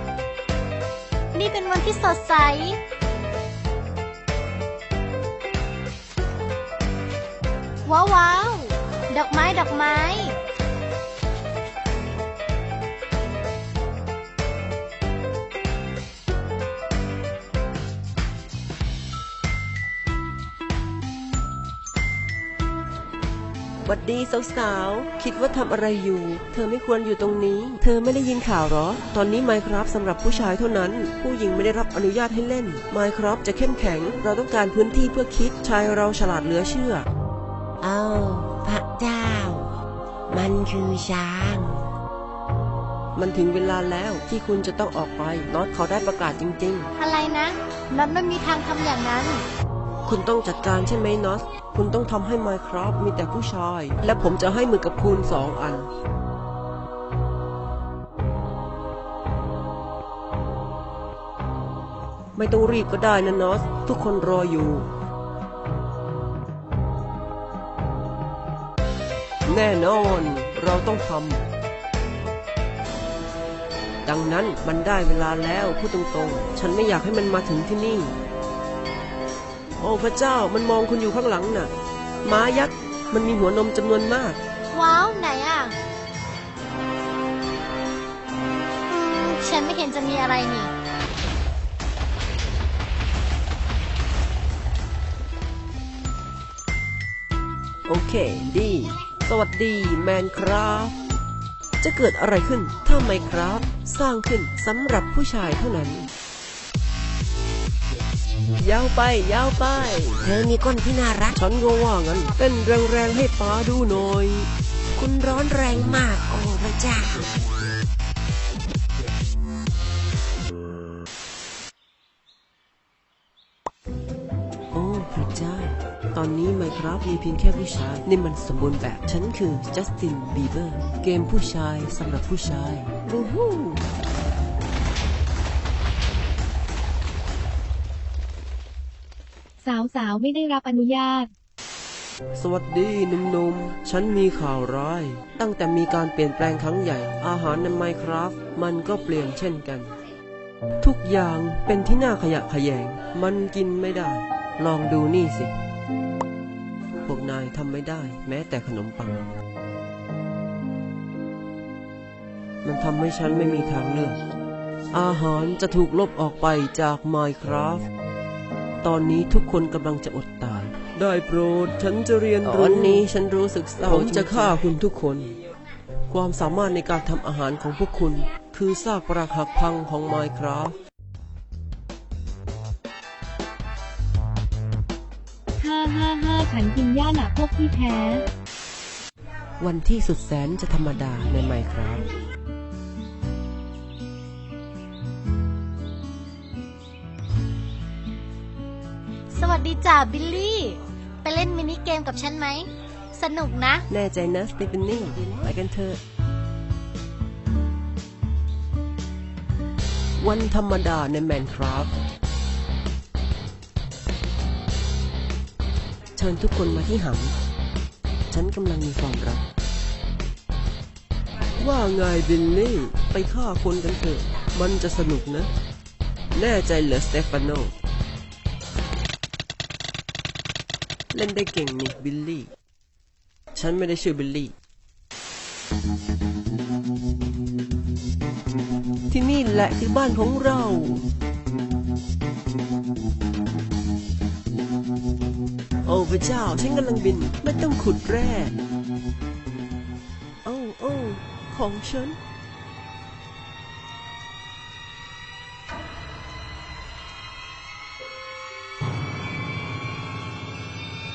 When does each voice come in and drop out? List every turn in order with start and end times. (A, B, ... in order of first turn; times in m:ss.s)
0:01.3-0:02.8 A
0:07.8-0:10.4 A
0:23.8-0:37.1 B
0:37.8-0:39.7 C
0:40.3-0:41.9 C
0:43.1-0:46.9 B
0:47.0-0:49.4 A
0:50.0-0:55.9 B
1:02.3-1:04.9 B
1:09.4-1:11.5 B
1:14.0-1:18.1 B
1:19.8-1:21.7 B
1:22.2-1:24.4 B
1:24.7-1:25.7 A
1:28.9-1:30.7 A
1:37.9-1:40.9 B
1:41.8-1:46.1 B
1:48.6-1:50.3 B
1:50.2-1:51.4 C
1:51.3-1:54.5 B
1:55.0-1:57.3 C
2:04.7-2:13.0 B
2:19.6-2:21.3 D
2:22.3-2:29.9 B
2:30.8-2:35.5 B
2:37.0-2:39.3 B
2:42.6-2:44.2 B
2:44.9-2:47.8 B
2:48.8-2:55.3 B
2:56.1-3:00.8 B
3:05.6-3:08.3 D
3:09.6-3:12.0 B
3:19.3-3:23.8 A
3:23.9-3:26.0 B
3:30.2-3:31.9 B
3:36.2-3:37.3 B
3:38.3-3:39.4 B
3:41.6-3:45.5 B
3:46.3-3:47.7 B
3:51.1-3:52.5 B
3:53.5-3:54.5 B
3:59.1-4:01.1 B
4:05.8-4:08.5 B
4:10.4-4:12.2 B